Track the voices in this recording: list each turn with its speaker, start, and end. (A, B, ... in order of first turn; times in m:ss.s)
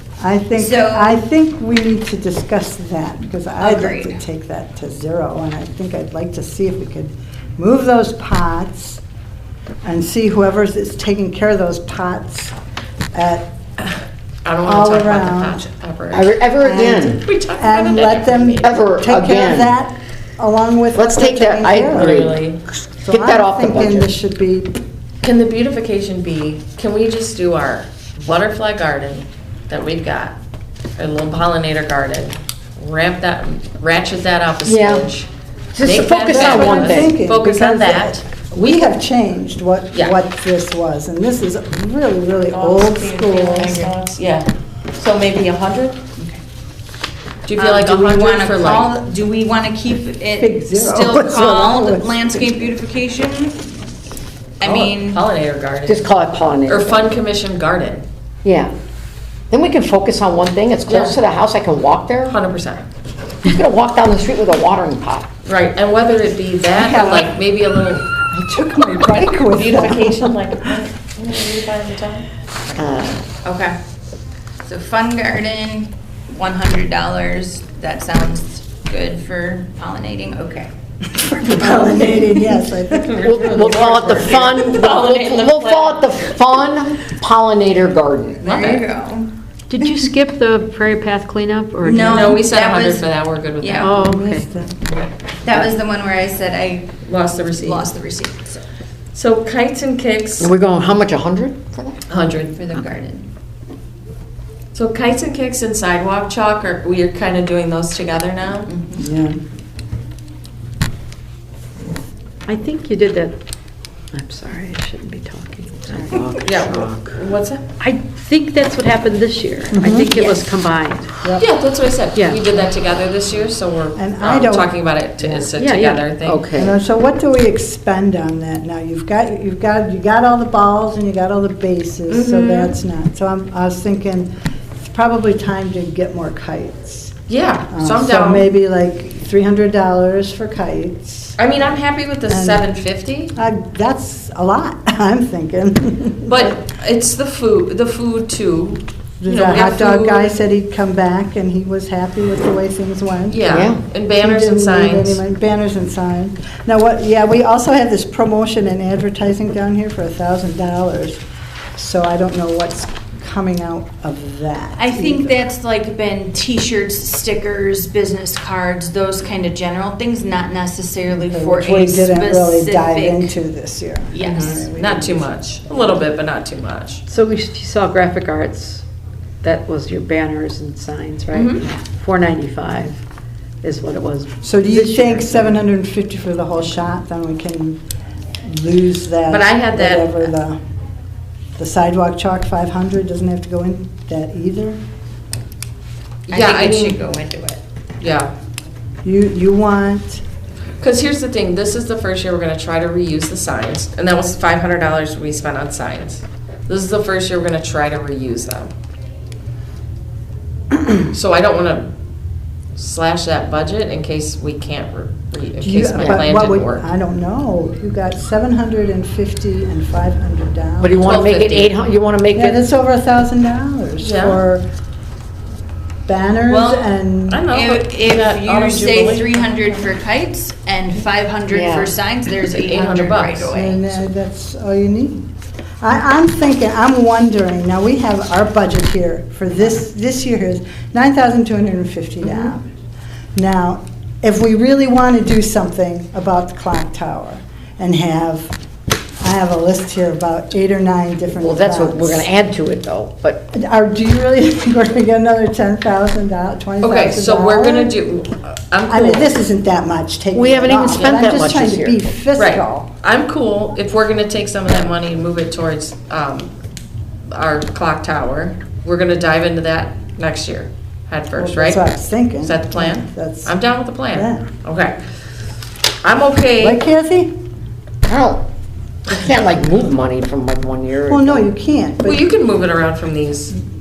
0:00.2-0:09.0 A
0:00.6-0:01.2 B
0:03.6-0:04.2 B
0:09.8-0:12.5 A
0:13.1-0:13.5 A
0:13.8-0:16.3 C
0:14.6-0:15.6 A
0:16.1-0:17.2 D
0:16.6-0:22.2 A
0:17.2-0:18.8 C
0:18.6-0:19.8 D
0:21.0-0:22.4 D
0:21.9-0:22.6 C
0:23.0-0:24.7 A
0:23.1-0:24.1 D
0:25.2-0:30.4 C
0:31.0-0:35.3 C
0:34.6-0:35.1 D
0:35.7-0:37.1 D
0:35.8-0:39.0 C
0:36.2-0:43.9 A
0:39.9-0:40.2 C
0:42.5-0:46.0 C
0:47.5-0:48.9 C
0:47.6-0:53.6 B
0:50.4-0:52.3 A
0:54.6-0:55.2 B
0:54.9-0:56.1 C
0:55.9-0:57.1 D
0:56.6-0:58.0 C
0:58.4-0:58.7 D
0:59.5-1:02.4 D
1:00.9-1:01.2 C
1:02.3-1:02.9 C
1:03.4-1:05.3 D
1:05.4-1:08.1 C
1:06.8-1:07.4 A
1:08.3-1:10.8 A
1:09.5-1:12.3 C
1:12.8-1:13.3 D
1:13.4-1:13.8 B
1:14.6-1:20.7 B
1:21.3-1:22.6 B
1:21.4-1:24.3 A
1:23.0-1:26.3 C
1:23.2-1:28.5 D
1:28.4-1:29.8 B
1:28.5-1:28.8 C
1:29.7-1:32.4 E
1:31.8-1:33.1 B
1:32.1-1:34.0 C
1:33.6-1:34.0 B
1:33.8-1:34.4 E
1:34.0-1:34.8 A
1:35.4-1:38.6 B
1:37.0-1:37.9 C
1:39.1-1:40.5 C
1:40.4-1:42.0 D
1:42.1-1:42.6 C
1:42.6-1:43.3 B
1:44.8-1:48.7 C
1:48.7-1:49.1 B
1:49.0-1:49.4 A
1:52.5-1:53.4 E
1:54.1-1:56.4 E
1:56.0-1:57.2 D
1:56.4-1:57.6 C
1:57.8-2:01.2 E
1:59.7-2:00.2 A
2:01.4-2:06.5 C
2:02.2-2:02.4 E
2:04.0-2:05.5 A
2:05.6-2:06.1 E
2:06.2-2:06.8 D
2:06.6-2:14.3 A
2:12.1-2:12.8 C
2:14.9-2:17.2 A
2:17.3-2:18.5 C
2:17.7-2:21.4 A
2:21.4-2:23.3 C
2:22.3-2:22.7 A
2:23.4-2:26.6 A
2:26.3-2:30.4 C
2:29.2-2:33.5 A
2:33.3-2:35.2 C
2:33.5-2:33.8 D
2:34.2-2:41.2 A
2:41.8-2:45.4 A
2:44.8-2:53.3 B
2:51.3-2:55.3 A
2:54.1-2:54.7 B
2:54.2-2:57.0 C
2:57.1-2:58.8 E
2:59.4-3:03.0 E
3:01.3-3:01.6 C
3:03.6-3:05.6 E
3:04.4-3:07.8 A
3:08.4-3:10.6 A
3:09.3-3:10.3 C
3:11.6-3:14.8 A
3:16.3-3:17.0 C
3:16.3-3:17.6 B
3:18.0-3:18.3 C
3:19.0-3:20.2 A
3:20.8-3:28.7 C
3:31.1-3:31.9 C
3:32.8-3:36.8 C
3:35.6-3:41.2 A
3:40.8-3:42.6 D
3:41.0-3:41.7 C
3:42.3-3:44.7 A
3:44.0-3:44.4 C
3:46.1-3:47.4 A
3:46.5-3:46.9 B
3:47.3-3:49.7 C
3:47.5-3:54.0 B
3:51.5-3:51.9 D
3:52.5-3:53.5 C
3:53.5-3:55.2 A
3:55.8-4:02.7 A
4:03.4-4:08.5 A
4:09.2-4:12.3 A
4:11.4-4:13.4 D
4:13.5-4:18.0 A
4:16.8-4:19.4 C
4:18.9-4:22.9 A
4:20.3-4:22.0 D
4:22.4-4:26.5 C
4:27.3-4:31.8 C
4:31.4-4:33.6 A
4:32.4-4:35.0 C
4:34.1-4:34.5 A
4:36.0-4:36.8 C
4:36.6-4:37.3 A
4:38.1-4:38.4 D
4:39.1-4:41.5 D
4:41.1-4:42.3 A
4:42.0-4:43.6 C